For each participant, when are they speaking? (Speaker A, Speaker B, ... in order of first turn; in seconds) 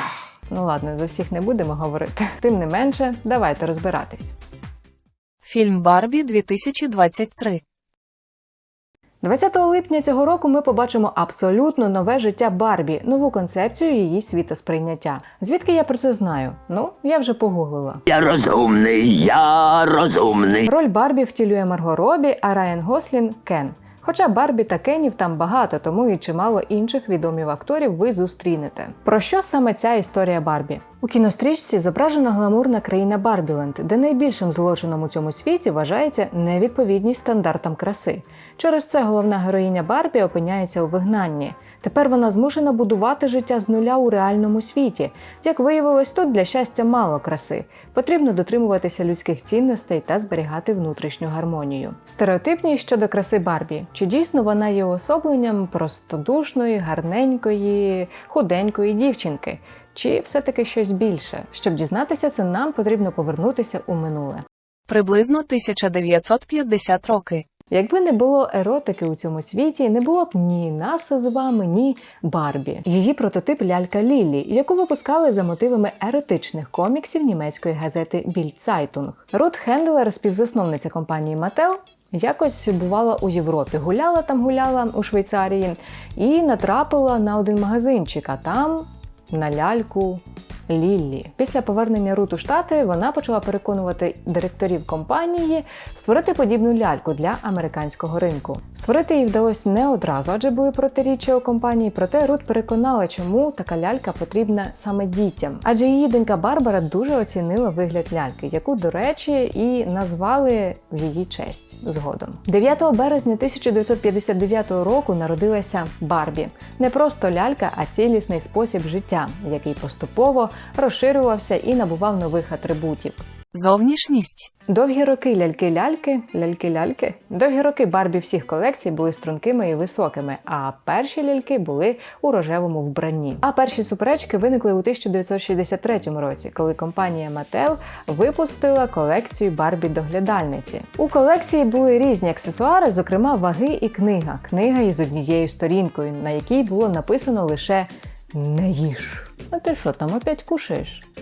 Speaker A: 0.5-4.3, 9.2-18.0, 20.6-64.4, 67.7-123.2, 124.7-151.0
Speaker B: 5.5-7.6, 64.9-67.5, 123.5-124.5
Speaker C: 18.1-20.6